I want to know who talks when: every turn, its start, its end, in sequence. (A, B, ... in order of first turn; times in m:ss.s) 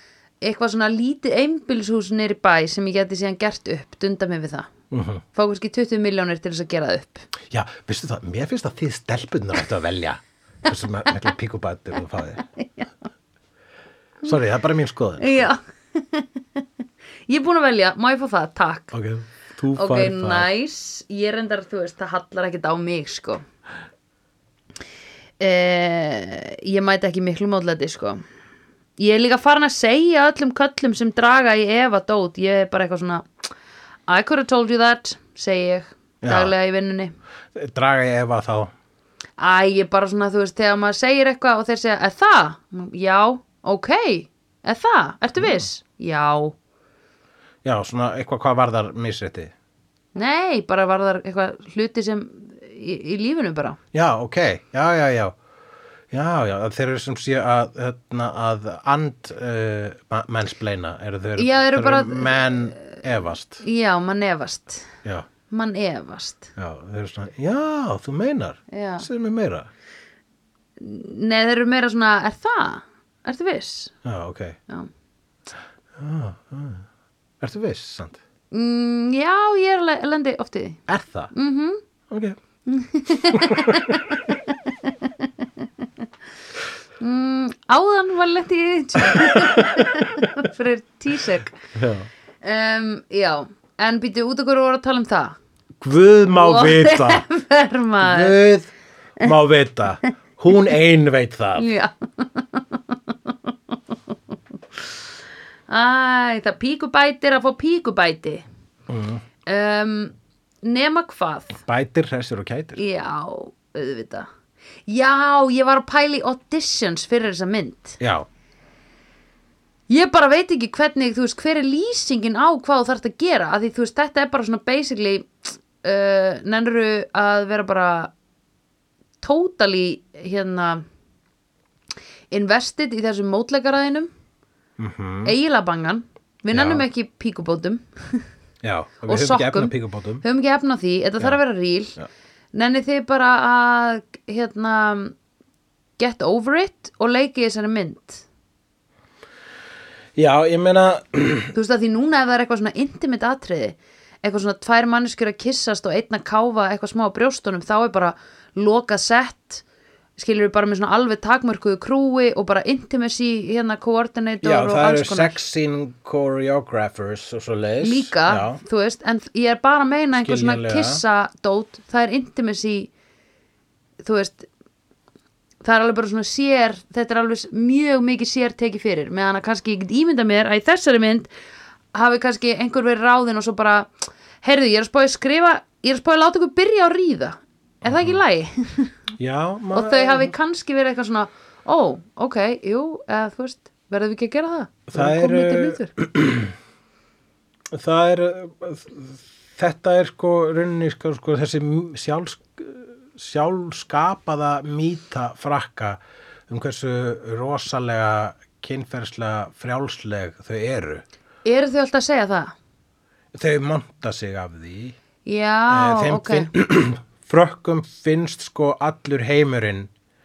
0:00.4-0:04.7 A
0:04.9-0:05.2 B
0:05.3-0:07.3 A
0:07.5-0:12.4 B
0:12.6-0:12.9 A
0:14.2-0:15.5 B
0:15.2-0:16.6 A
0:17.3-0:18.9 A
0:18.9-0:20.5 B
0:19.7-0:23.4 A
0:25.4-0:28.2 A
0:29.0-0:33.3 A
0:34.1-0:37.1 A
0:36.2-0:36.5 B
0:37.5-0:38.7 B
0:39.4-0:46.5 A
0:47.6-0:49.5 B
0:50.1-0:53.8 A
0:53.9-0:55.4 B
0:56.1-1:03.6 B
1:01.4-1:03.0 A
1:03.6-1:04.9 A
1:05.5-1:06.5 A
1:06.6-1:09.7 B
1:08.7-1:09.1 A
1:10.8-1:13.9 A
1:14.0-1:14.6 B
1:16.0-1:16.8 B
1:17.4-1:18.2 B
1:18.5-1:20.8 A
1:20.9-1:21.3 B
1:21.3-1:21.8 A
1:22.1-1:22.4 B
1:22.6-1:25.6 A
1:23.3-1:24.0 B
1:27.0-1:31.6 A
1:29.1-1:29.9 B
1:31.7-1:32.1 B
1:32.4-1:35.4 A
1:35.8-1:37.2 B
1:36.3-1:38.4 A
1:38.0-1:41.7 B
1:41.5-1:43.7 A
1:45.7-1:48.4 A
1:48.9-1:49.2 B
1:49.4-1:51.6 A
1:51.6-1:52.8 B
1:52.8-1:54.3 A
1:54.9-1:58.0 A
1:58.0-1:58.2 B
1:59.9-2:08.1 A
2:09.2-2:10.8 A
2:12.3-2:14.1 A
2:14.8-2:15.3 B
2:15.2-2:18.2 A
2:16.5-2:16.8 B
2:18.6-2:20.2 B
2:19.0-2:22.0 A
2:22.5-2:25.1 A
2:26.0-2:28.2 A
2:30.2-2:31.5 B
2:31.5-2:39.6 A
2:40.2-2:45.4 A
2:44.4-2:48.6 B
2:47.8-2:52.9 A
2:50.2-2:51.0 B
2:54.0-2:54.5 A
2:55.6-3:01.3 A
3:01.9-3:09.0 A
3:07.8-3:08.2 B
3:09.2-3:10.3 B
3:09.7-3:15.9 A
3:14.9-3:16.5 B
3:17.7-3:31.0 B
3:31.4-3:32.5 A
3:33.3-3:35.0 B
3:35.2-3:36.5 A
3:35.7-3:39.9 B